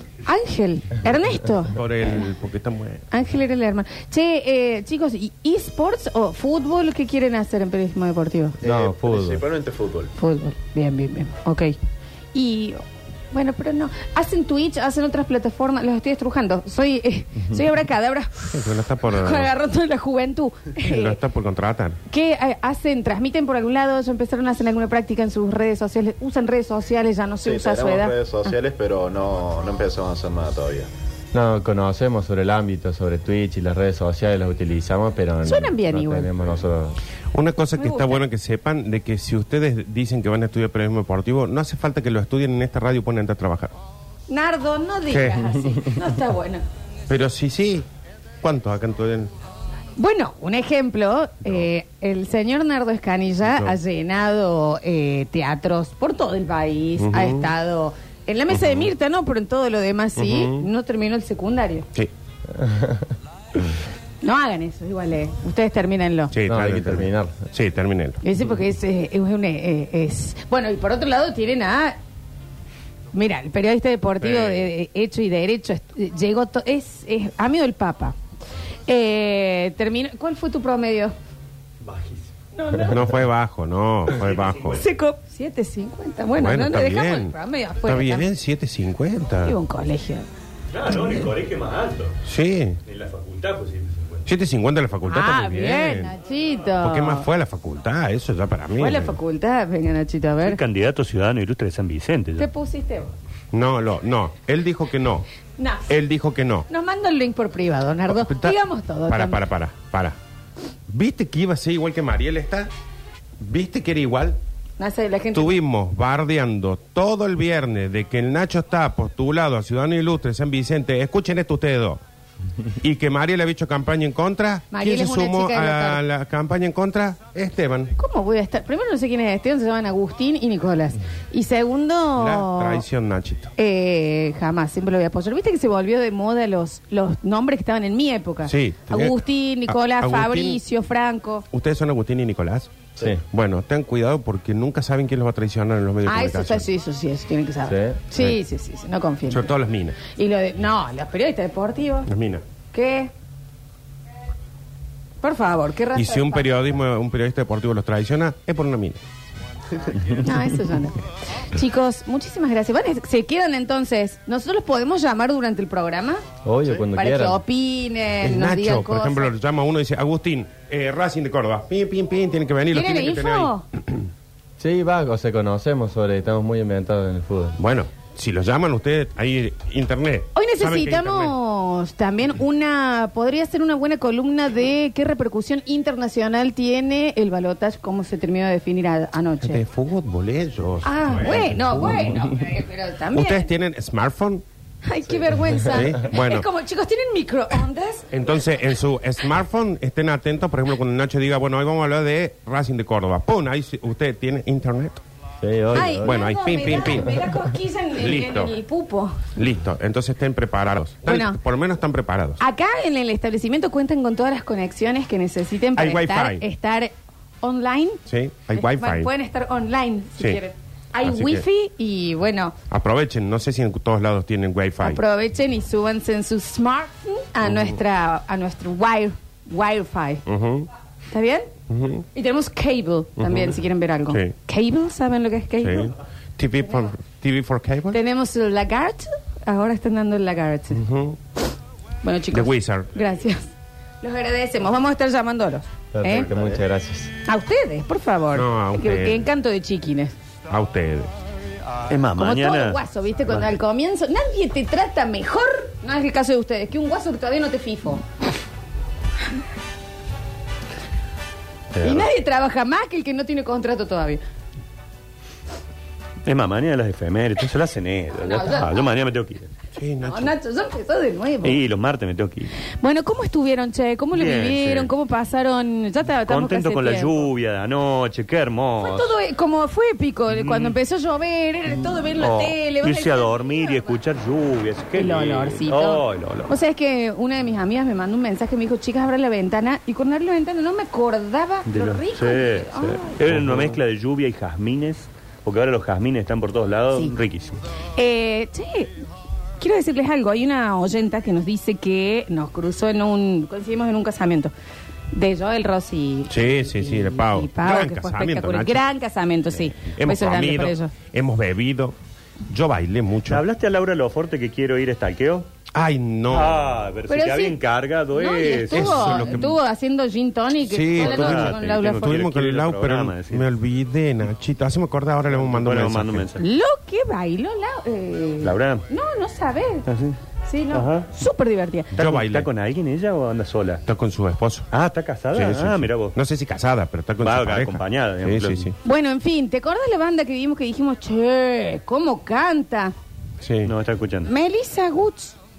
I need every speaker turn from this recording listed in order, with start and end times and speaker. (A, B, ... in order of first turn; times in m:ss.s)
0:00.2-0:01.7 A
0:01.7-0:03.0 B
0:03.1-0:08.6 A
0:08.6-0:09.4 C
0:08.6-0:10.1 D
0:10.2-0:11.8 A
0:12.3-0:12.8 A
0:13.3-0:21.2 A
0:18.5-0:19.5 B
0:20.8-0:22.0 B
0:22.1-0:28.5 A
0:27.4-0:30.9 D
0:31.3-0:37.0 C
0:35.4-0:36.3 A
0:37.3-0:43.7 B
0:37.8-0:38.2 A
0:44.3-0:46.6 A
0:45.1-0:45.7 B
0:47.1-0:47.8 B
0:48.4-0:49.3 B
0:50.0-1:01.9 A
0:53.5-0:53.7 B
0:57.0-0:57.5 B
0:58.5-0:58.9 B
1:00.2-1:00.7 B
1:02.6-1:03.1 C
1:04.2-1:06.3 A
1:06.3-1:08.2 B
1:06.4-1:07.4 C
1:08.2-1:12.0 A
1:13.1-1:18.2 A
1:14.2-1:14.7 B
1:18.9-1:21.1 A
1:21.8-1:22.3 E
1:22.5-1:23.2 A
1:22.9-1:24.8 B
1:24.1-1:24.8 E
1:24.7-1:28.3 A
1:26.3-1:27.3 B
1:27.8-1:29.6 B
1:29.4-1:30.2 A
1:30.7-1:32.2 E
1:32.2-1:32.8 B
1:32.8-1:34.2 E
1:34.2-1:36.1 B
1:35.0-1:37.3 A
1:36.8-1:39.2 B
1:38.8-1:40.6 A
1:40.4-1:42.5 E
1:42.4-1:43.1 A
1:43.5-1:45.3 B
1:45.6-1:45.9 A
1:45.9-1:46.6 B
1:46.7-1:49.4 A
1:48.1-1:50.2 B
1:50.9-1:52.7 B
1:53.4-1:54.4 B
1:54.8-1:55.6 A
1:55.3-2:02.0 B
2:02.8-2:07.9 B
2:04.7-2:06.0 A
2:08.0-2:12.8 A
2:12.2-2:13.5 B
2:13.6-2:21.4 A
2:18.4-2:19.2 B
2:19.7-2:20.6 B
2:21.5-2:26.7 B
2:26.0-2:29.5 A
2:27.6-2:28.0 C
2:29.3-2:30.0 B
2:30.0-2:32.1 A
2:32.1-2:32.4 B
2:32.7-2:33.1 A
2:35.2-2:36.5 A
2:35.9-2:39.0 B
2:40.0-2:46.2 A
2:46.4-2:47.4 C
2:46.9-2:49.3 A
2:48.2-2:54.1 B
2:52.7-2:53.6 A
2:54.6-2:57.6 C
2:57.6-3:01.3 B
3:00.3-3:09.6 A
3:09.4-3:12.4 B
3:10.8-3:13.5 A
3:13.1-3:14.4 B
3:14.8-3:18.1 A
3:15.6-3:16.4 B
3:18.1-3:25.0 B
3:25.4-3:26.2 C
3:25.7-3:29.3 A
3:25.8-3:27.3 B
3:28.0-3:28.5 B
3:29.3-3:32.4 B
3:31.0-3:31.4 A
3:32.4-3:36.9 A
3:35.8-3:36.4 B
3:37.4-3:42.5 A
3:38.1-3:39.1 B
3:41.0-3:41.4 B
3:42.7-3:45.0 B
3:44.8-3:50.2 A
3:50.2-3:50.7 B
3:51.1-3:51.5 A
3:51.7-3:52.0 B
3:52.1-3:55.9 A
3:53.2-3:54.3 B
3:55.6-3:58.0 B
3:57.9-4:00.8 A
4:00.7-4:01.2 B
4:02.0-4:03.5 A
4:02.3-4:02.9 B
4:04.0-4:06.3 A
4:05.9-4:07.1 C
4:07.2-4:10.1 A
4:08.3-4:09.2 B
4:10.5-4:11.1 B
4:11.9-4:13.5 E
4:12.1-4:18.0 A
4:21.7-4:22.1 E
4:21.8-4:24.2 A
4:26.2-4:29.5 E
4:28.1-4:28.9 A
4:29.7-4:30.3 B
4:30.0-4:31.6 A
4:31.4-4:32.5 E
4:32.8-4:37.3 A
4:34.1-4:34.9 E
4:36.2-4:39.2 E
4:38.8-4:44.0 A
4:40.3-4:40.8 E
4:42.2-4:46.5 E
4:44.9-4:53.2 A
4:51.7-4:57.6 E
4:53.3-4:53.8 B
4:57.9-4:59.0 A
4:59.6-5:04.5 A
5:05.1-5:10.9 A
5:06.3-5:08.8 B
5:09.8-5:13.4 B
5:13.2-5:15.5 E
5:15.7-5:16.7 B
5:16.3-5:19.4 E
5:17.1-5:17.6 A
5:18.1-5:22.1 A
5:18.7-5:19.6 B
5:20.6-5:26.3 B
5:20.9-5:23.5 E
5:25.3-5:26.4 E
5:26.4-5:29.8 A
5:28.4-5:28.9 E
5:29.8-5:30.2 E
5:30.4-5:31.9 A
5:30.7-5:31.1 E
5:31.9-5:33.8 E
5:32.0-5:32.5 B
5:33.8-5:34.7 B
5:34.7-5:36.1 E
5:35.3-5:38.7 B
5:37.2-5:38.7 E
5:38.8-5:42.9 A
5:43.4-5:43.7 B
5:43.6-5:44.3 E
5:44.2-5:45.4 A